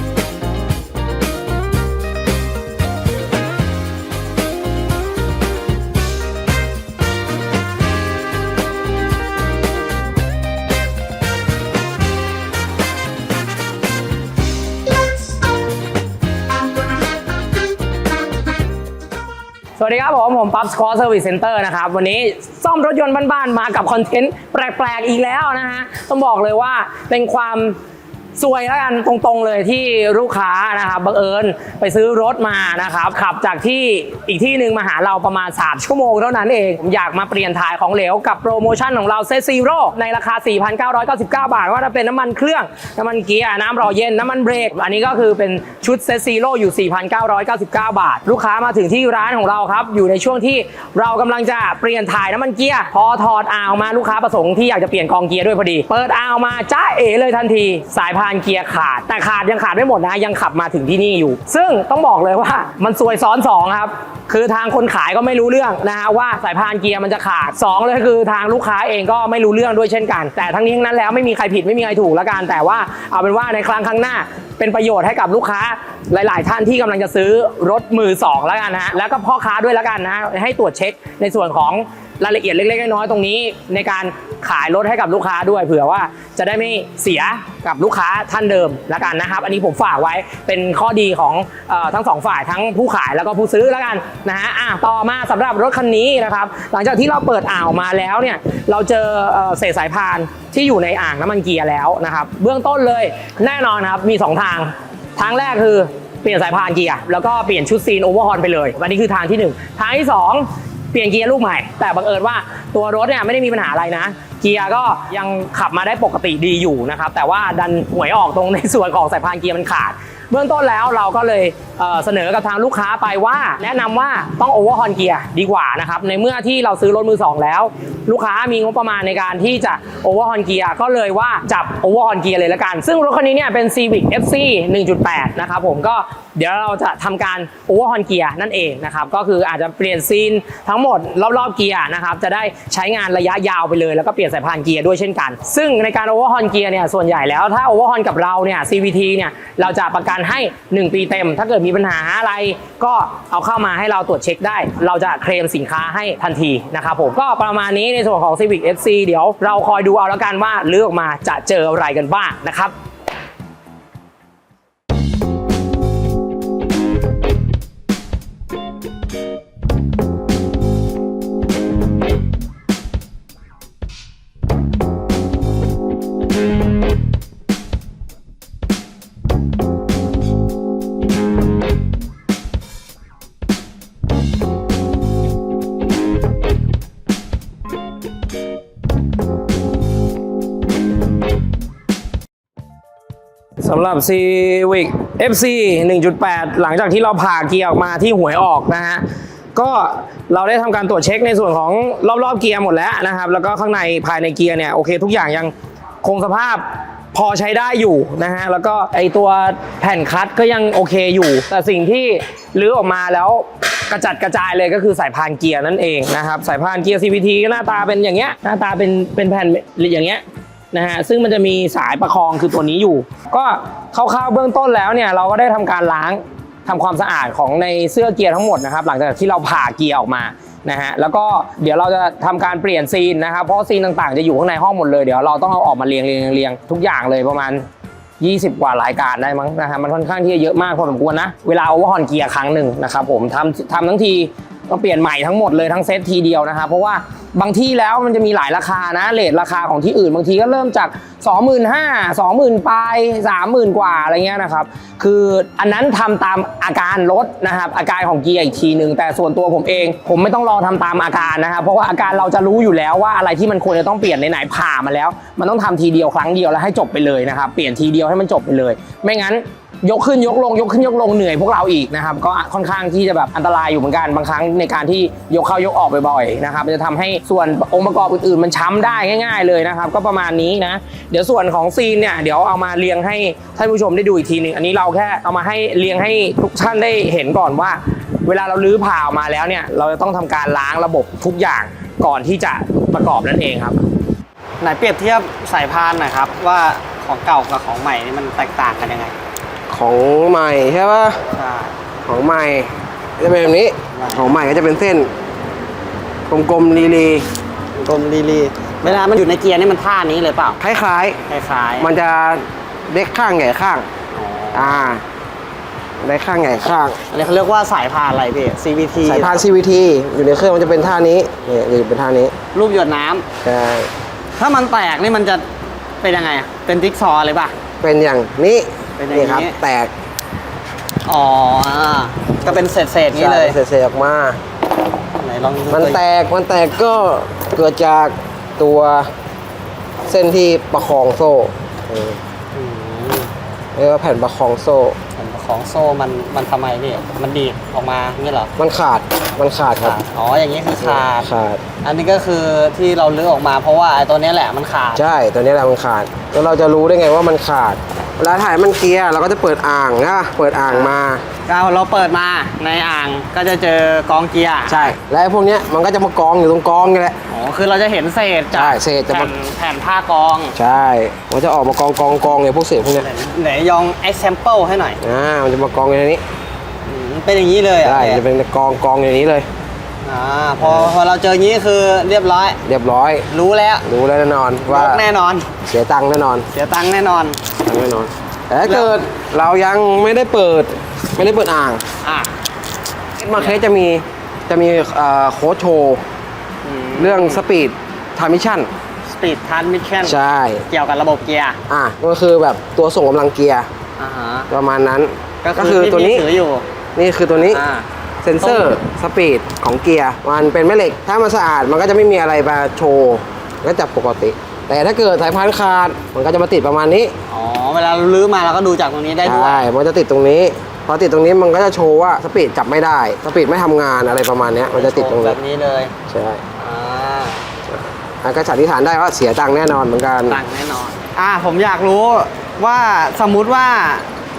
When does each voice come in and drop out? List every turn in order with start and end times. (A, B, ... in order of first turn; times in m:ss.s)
0:19.8-0:27.8 A
0:28.4-2:42.7 A
3:13.6-3:57.6 A
3:58.2-4:53.8 A
4:54.6-4:59.1 B
4:59.7-5:01.2 C
5:01.3-5:01.7 B
5:02.0-5:05.1 C
5:04.0-5:04.4 B
5:06.3-5:07.3 C
5:07.8-5:10.6 B
5:10.6-5:11.2 C
5:11.3-5:11.9 B
5:11.8-5:13.9 C
5:14.1-5:14.9 B
5:14.5-5:15.0 C
5:16.0-5:17.0 C
5:17.1-5:19.4 B
5:19.0-5:22.4 C
5:22.5-5:23.3 B
5:23.4-5:23.9 C
5:24.4-5:25.4 B
5:26.0-5:27.6 B
5:27.8-5:29.9 C
5:29.0-5:29.6 B
5:31.1-5:33.6 B
5:33.1-5:34.4 C
5:35.2-5:36.0 B
5:35.7-5:39.1 C
5:40.1-5:42.2 C
5:42.5-5:43.3 B
5:43.8-5:45.0 C
5:45.2-5:48.5 B
5:48.6-5:50.0 C
5:49.8-5:51.3 B
5:50.8-5:51.6 C
5:51.8-5:55.0 B
5:55.0-6:01.2 C
6:01.5-6:04.9 B
6:04.7-6:07.2 C
6:07.3-6:10.6 B
6:08.5-6:09.3 C
6:10.6-6:13.1 C
6:13.0-6:15.0 B
6:15.0-6:16.2 C
6:16.9-6:18.2 B
6:17.8-6:19.5 C
6:20.0-6:22.6 B
6:20.6-6:20.9 C
6:22.6-6:23.3 C
6:23.3-6:23.9 B
6:23.8-6:25.0 C
6:24.7-6:25.5 B
6:25.7-6:26.5 C
6:26.5-6:27.4 B
6:27.6-6:31.8 C
6:28.6-6:28.9 B
6:32.0-6:32.3 B
6:33.2-6:36.0 C
6:36.6-6:37.4 B
6:37.0-6:38.7 C
6:39.1-6:41.6 B
6:40.0-6:40.7 C
6:41.7-6:43.7 C
6:44.0-6:44.5 B
6:44.5-6:46.3 C
6:45.4-6:46.6 B
6:47.0-6:47.6 C
6:47.5-6:47.8 B
6:48.2-6:57.1 C
6:48.4-6:48.7 B
6:57.3-6:59.6 B
6:59.2-7:05.4 C
7:04.7-7:05.9 B
7:06.1-7:06.4 C
7:06.6-7:07.4 B
7:07.7-7:10.4 C
7:10.3-7:14.1 B